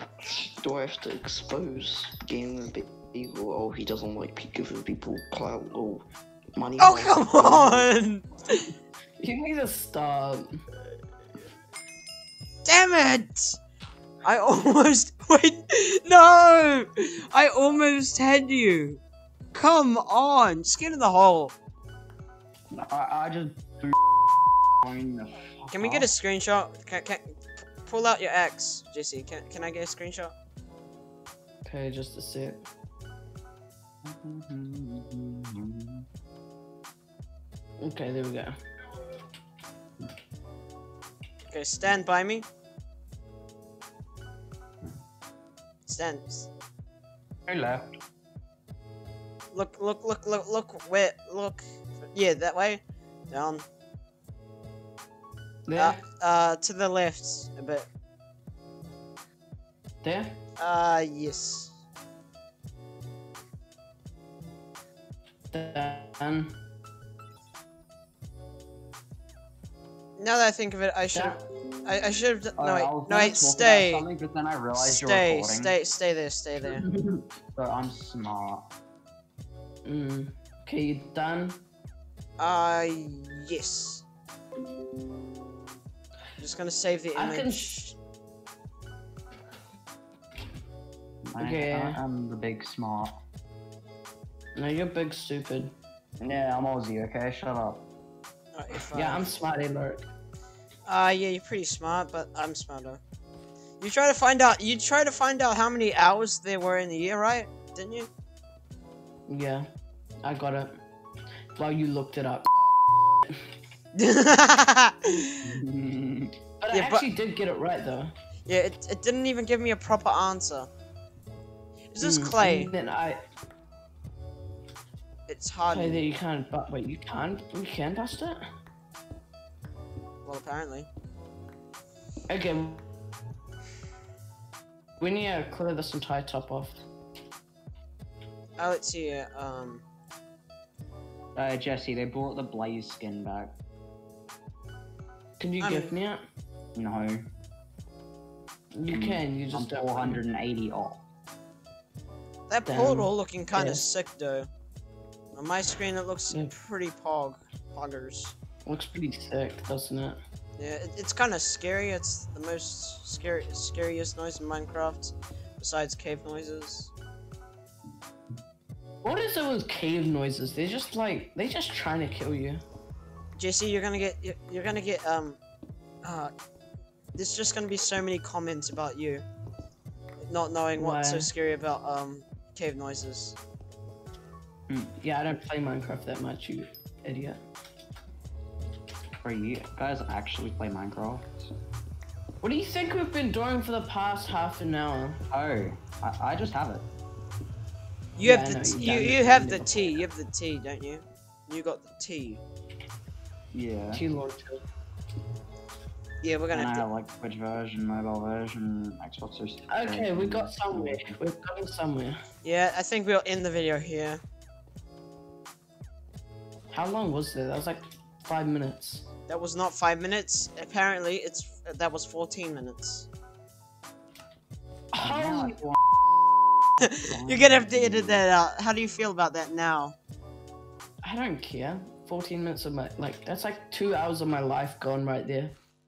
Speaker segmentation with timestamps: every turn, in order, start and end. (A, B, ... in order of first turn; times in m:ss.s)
0:00.2-0:07.9 A
0:06.8-0:08.7 B
0:09.2-0:10.6 C
0:12.6-0:13.6 B
0:14.2-0:19.0 B
0:19.5-0:21.5 B
0:22.7-0:24.0 D
0:24.8-0:26.1 D
0:25.7-0:27.2 B
0:27.8-0:30.3 B
0:31.6-0:32.6 C
0:34.0-0:36.0 D
0:37.8-0:38.6 C
0:41.4-0:42.4 B
0:45.8-0:46.5 B
0:47.5-0:47.9 D
0:49.5-0:53.6 B
0:55.6-0:56.0 C
0:55.7-0:57.9 B
1:00.0-1:00.4 C
1:00.6-1:01.8 B
1:05.5-1:06.6 C
1:10.2-1:14.0 B
1:11.1-1:11.4 C
1:12.6-1:15.8 D
1:14.8-1:16.8 B
1:16.6-1:17.2 C
1:17.5-1:18.7 D
1:19.8-1:21.6 C
1:22.4-1:24.0 B
1:26.4-1:28.0 B
1:27.2-1:27.6 C
1:31.3-1:33.2 D
1:31.4-1:32.0 C
1:34.5-1:35.7 C
1:36.2-1:37.8 D
1:38.5-1:39.4 B
1:38.9-1:40.1 C
1:40.8-1:43.0 B
1:43.8-1:48.1 B
1:49.3-1:49.7 C
1:50.2-1:50.8 C
1:51.6-1:52.5 C
1:53.9-1:55.4 B
1:55.4-1:56.3 D
1:56.6-1:58.1 C
1:56.7-1:57.1 B
1:58.4-2:00.7 B
2:01.9-2:02.7 B
2:02.0-2:03.2 C
2:05.3-2:06.1 B
2:05.7-2:08.4 C
2:10.2-2:10.9 B
2:12.3-2:12.8 C
2:15.0-2:16.8 C
2:18.6-2:19.8 B
2:21.4-2:23.6 D
2:25.4-2:26.2 C
2:25.6-2:25.9 B
2:26.7-2:27.2 D
2:28.7-2:30.2 C
2:28.9-2:31.0 D
2:32.5-2:34.5 B
2:32.6-2:33.8 C
2:35.3-2:38.3 B
2:38.6-2:40.2 C
2:40.6-2:46.9 B
2:49.0-2:52.6 C
2:53.4-2:55.4 B
2:56.0-2:56.3 B
2:57.1-2:59.2 B
3:00.3-3:03.4 B
3:00.8-3:01.3 C
3:04.7-3:04.9 D
3:05.0-3:07.4 C
3:09.2-3:11.5 D
3:12.4-3:15.2 C
3:15.3-3:16.9 D
3:18.2-3:22.4 B
3:18.2-3:20.0 C
3:23.5-3:24.1 D
3:23.9-3:24.6 C
3:26.2-3:26.9 B
3:26.5-3:31.2 D
3:29.7-3:32.2 C
3:32.4-3:34.2 B
3:36.7-3:39.1 C
3:39.3-3:43.1 B
3:44.9-3:45.6 C
3:45.0-3:45.8 D
3:46.8-3:50.0 B
3:46.9-3:48.3 D
3:51.0-3:55.6 C